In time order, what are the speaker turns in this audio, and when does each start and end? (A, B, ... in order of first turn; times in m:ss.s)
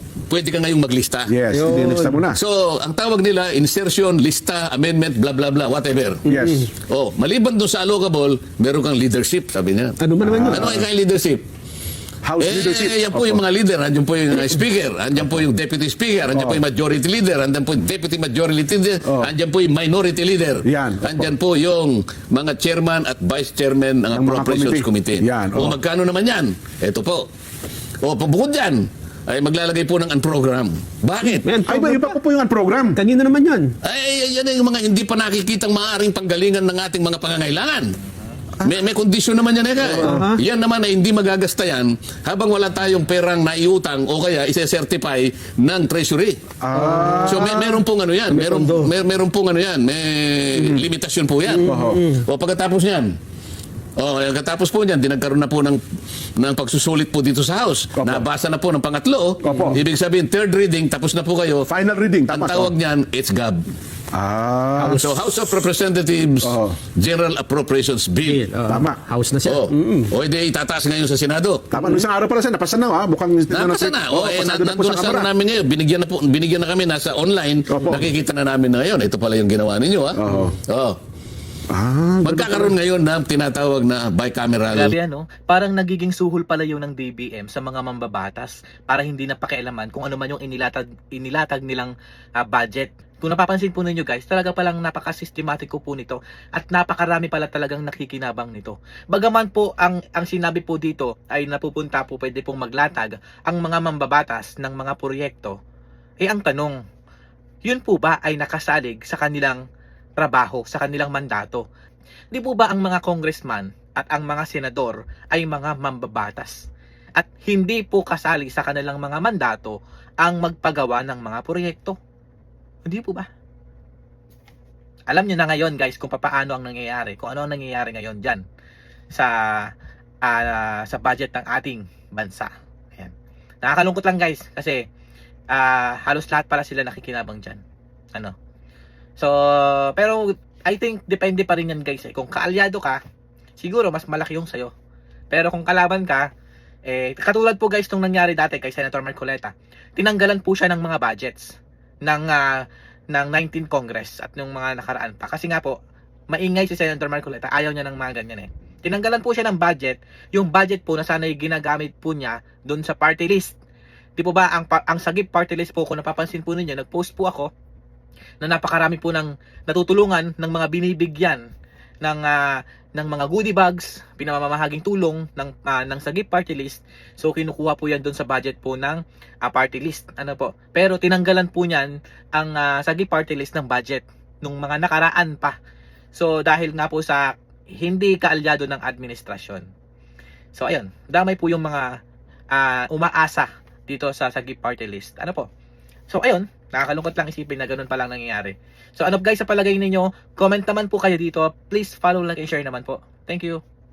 0:00.3-0:01.3 A
0:01.3-0:02.4 B
0:01.5-0:02.2 C
0:02.3-0:06.3 A
0:06.2-0:06.7 B
0:06.2-0:06.7 C
0:06.9-0:11.4 A
0:10.0-0:10.7 C
0:10.2-0:10.8 B
0:12.2-0:13.4 B
0:12.4-0:27.2 A
0:16.3-0:16.6 B
0:19.0-0:19.3 B
0:20.6-0:21.3 B
0:24.1-0:25.8 B
0:28.0-0:31.5 A
0:31.3-0:32.2 C
0:31.6-0:33.0 B
0:33.0-0:33.7 C
0:33.8-0:37.9 A
0:38.6-0:46.4 A
0:40.0-0:40.4 C
0:46.6-0:47.8 B
0:46.7-0:47.4 C
0:47.2-0:53.1 A
0:48.3-0:48.9 C
0:51.5-0:52.2 C
0:51.6-0:52.1 B
0:54.0-0:55.8 A
0:56.4-1:01.7 A
0:58.0-0:58.2 B
0:59.4-0:59.8 B
1:01.7-1:02.7 B
1:02.3-1:03.6 A
1:04.1-1:05.0 B
1:04.8-1:05.1 C
1:05.0-1:08.5 A
1:06.4-1:06.8 B
1:08.2-1:10.1 C
1:08.7-1:09.0 B
1:09.4-1:11.7 A
1:11.7-1:15.3 B
1:13.5-1:21.0 A
1:17.7-1:18.0 B
1:20.2-1:20.6 B
1:21.7-1:22.8 B
1:22.2-1:24.9 A
1:24.7-1:45.5 D
1:46.2-1:46.8 D
1:47.6-1:49.6 D
1:50.2-1:51.6 D
1:52.3-2:02.0 D
2:02.8-2:03.3 D
2:05.1-2:08.4 D
2:09.1-2:09.7 D
2:10.2-2:14.8 D
2:15.5-2:17.6 D
2:19.2-2:23.0 D
2:23.6-2:24.7 D
2:25.3-2:26.3 D
2:26.9-2:35.8 D
2:36.3-2:43.5 D
2:44.2-2:47.5 D
2:48.4-2:51.4 D
2:52.0-3:05.5 D
3:06.1-3:09.7 D
3:10.6-3:11.9 D
3:12.5-3:15.5 D
3:16.1-3:23.6 D